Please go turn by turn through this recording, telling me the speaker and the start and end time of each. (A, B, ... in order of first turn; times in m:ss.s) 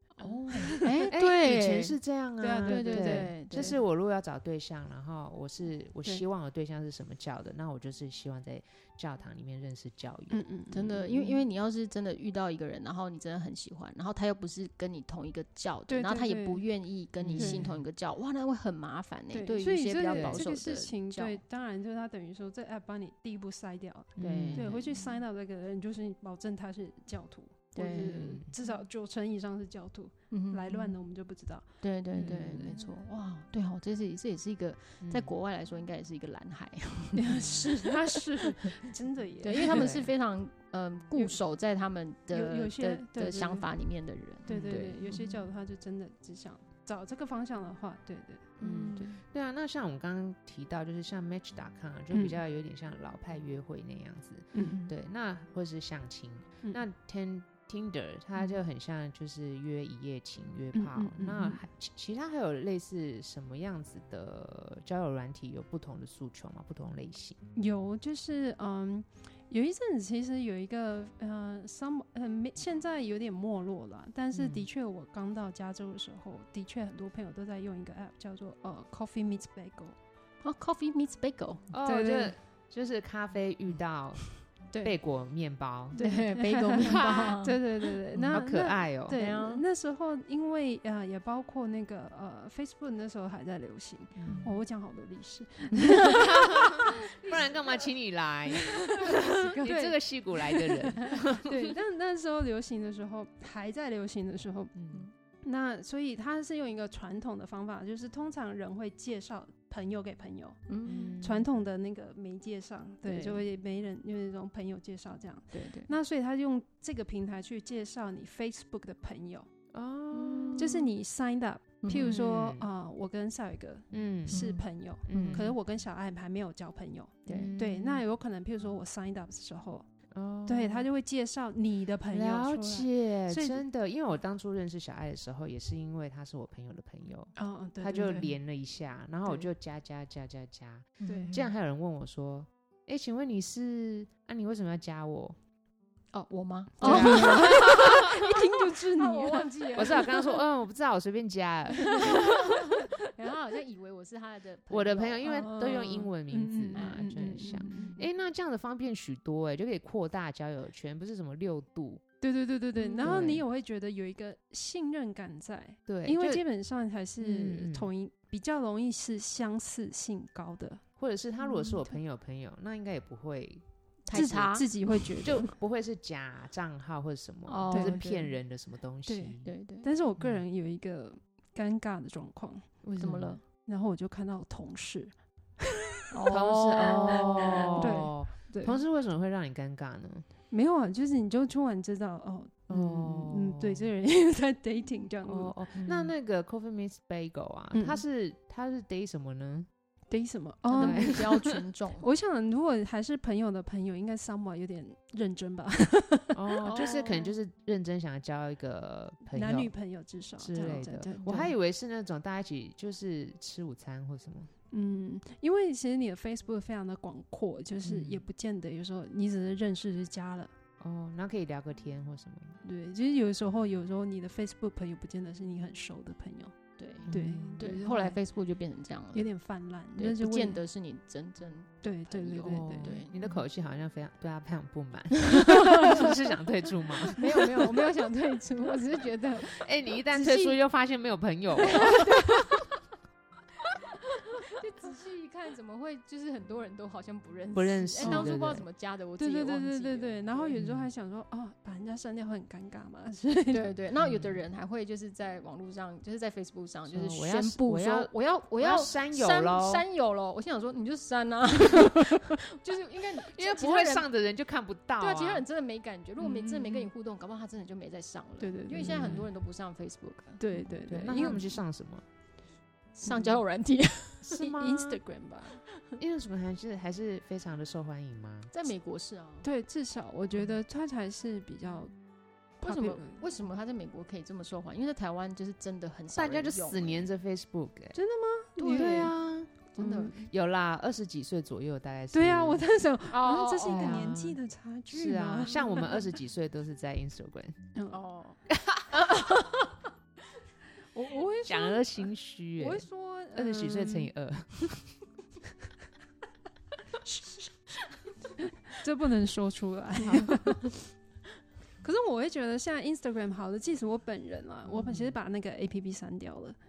0:00.2-0:02.0 A
0:00.2-0:01.1 B
0:01.0-0:10.4 C
0:02.4-0:03.8 B
0:02.6-0:03.7 A
0:10.3-0:11.4 B
0:10.7-0:21.4 A
0:15.9-0:16.7 B
0:17.2-0:17.8 C
0:17.4-0:17.7 B
0:19.3-0:32.8 B
0:20.1-0:20.5 C
0:24.2-0:24.8 C
0:24.2-0:25.1 A
0:27.7-0:28.7 A
0:27.9-0:28.5 C
0:30.3-0:31.0 A
0:31.8-0:38.2 A
0:32.1-0:32.7 C
0:35.0-0:35.3 C
0:37.2-0:40.0 B
0:37.4-0:37.7 C
0:39.4-0:45.4 A
0:39.7-0:40.1 C
0:41.1-0:41.4 B
0:42.3-0:43.7 B
0:44.4-0:49.0 B
0:44.5-0:44.9 C
0:48.6-0:49.2 A
0:48.6-1:07.4 C
0:52.1-0:52.4 B
0:54.5-0:54.9 B
1:00.7-1:01.6 B
1:07.6-1:20.0 B
1:14.3-1:14.7 C
1:20.4-1:21.7 A
1:21.7-1:26.0 C
1:21.8-1:22.3 B
1:24.7-1:25.0 B
1:25.9-1:37.5 B
1:26.0-1:27.6 A
1:26.8-1:27.4 C
1:28.1-1:29.2 C
1:29.1-1:29.6 A
1:34.2-1:34.4 C
1:34.3-1:34.6 A
1:36.1-1:41.8 C
1:38.9-1:39.8 A
1:39.2-1:40.0 B
1:40.7-1:41.2 A
1:41.4-1:44.8 B
1:44.8-1:45.0 C
1:45.4-1:59.5 B
1:50.7-1:51.1 A
1:50.8-1:51.5 C
1:53.0-1:53.4 A
1:55.5-1:55.9 A
1:59.7-2:00.7 C
2:00.1-2:00.9 A
2:00.6-2:09.9 B
2:01.8-2:02.2 A
2:01.9-2:02.7 C
2:03.9-2:04.5 C
2:04.3-2:05.5 A
2:05.1-2:05.6 C
2:07.3-2:07.6 A
2:07.3-2:08.0 C
2:10.1-2:10.9 C
2:10.4-2:13.6 B
2:12.1-2:25.4 C
2:17.4-2:18.3 B
2:21.0-2:21.4 A
2:21.0-2:21.4 B
2:26.1-2:28.0 A
2:26.8-2:28.1 C
2:26.8-2:30.2 B
2:29.0-2:30.3 A
2:29.8-2:32.3 C
2:32.0-2:35.2 A
2:34.7-2:42.0 C
2:35.2-2:38.0 B
2:36.7-2:38.0 A
2:42.2-2:50.8 B
2:42.8-2:43.3 A
2:43.0-2:43.4 C
2:45.9-2:46.4 C
2:47.2-2:47.9 C
2:51.0-2:54.4 C
2:51.5-2:51.9 B
2:54.1-2:54.9 A
2:54.1-2:55.5 B
2:55.2-2:59.5 C
2:57.4-2:58.3 A
2:57.7-2:58.0 B
2:59.0-3:06.0 B
2:59.4-2:59.9 A
3:00.2-3:00.4 C
3:02.8-3:03.4 A
3:03.0-3:03.4 C
3:06.1-3:08.0 A
3:06.3-3:10.3 C
3:06.7-3:08.8 B
3:10.5-3:15.8 B
3:12.7-3:13.9 C
3:15.2-3:19.7 C
3:15.8-3:16.0 A
3:17.7-3:18.0 B
3:20.1-3:27.2 B
3:20.7-3:22.1 A
3:20.8-3:21.2 C
3:26.3-3:29.7 C
3:26.6-3:27.3 A
3:29.3-3:31.1 B
3:30.4-3:34.5 C
3:30.6-3:31.5 A
3:34.7-3:40.5 B
3:37.8-3:38.2 C
3:40.8-3:42.6 C
3:42.6-3:46.6 B
3:46.8-3:49.3 A
3:47.0-3:47.8 C
3:47.1-3:48.2 B
3:49.1-3:50.6 B
3:50.0-3:53.1 A
3:51.8-3:52.9 B
3:52.5-3:57.7 C
3:55.3-3:56.1 A
3:57.1-4:00.6 A
3:59.4-4:02.4 C
4:01.6-4:02.7 A
4:04.3-4:10.5 A
4:07.5-4:08.6 C
4:08.0-4:08.3 B
4:09.2-4:13.7 B
4:10.5-4:10.9 C
4:13.5-4:24.1 A
4:14.0-4:14.4 C
4:16.9-4:19.8 C
4:23.1-4:25.4 C
4:25.0-4:30.7 A
4:26.2-4:26.9 B
4:28.4-4:29.2 B
4:28.7-4:29.3 C
4:30.4-4:31.6 B
4:30.8-4:32.0 C
4:32.9-4:34.5 A
4:34.2-4:35.0 C
4:34.4-4:35.6 B
4:36.0-4:38.5 C
4:38.5-4:39.5 A
4:39.4-4:41.9 B
4:42.6-4:43.2 B
4:42.6-4:47.1 A
4:46.1-4:48.0 C
4:47.9-4:49.1 B
4:48.6-4:49.1 A
4:48.7-4:52.7 C
4:49.8-4:50.2 A
4:49.8-4:50.2 B
4:52.1-4:56.1 B
4:53.1-4:54.1 A
4:53.6-4:54.4 C
4:54.9-4:57.6 C
4:57.7-4:58.0 B
4:57.9-4:58.4 A
4:58.5-4:59.2 C
4:59.2-4:59.5 A
5:00.9-5:04.1 B
5:01.4-5:05.0 C
5:07.0-5:07.8 B
5:08.4-5:10.7 B
5:10.0-5:10.4 C
5:11.8-5:16.6 B
5:14.7-5:15.2 C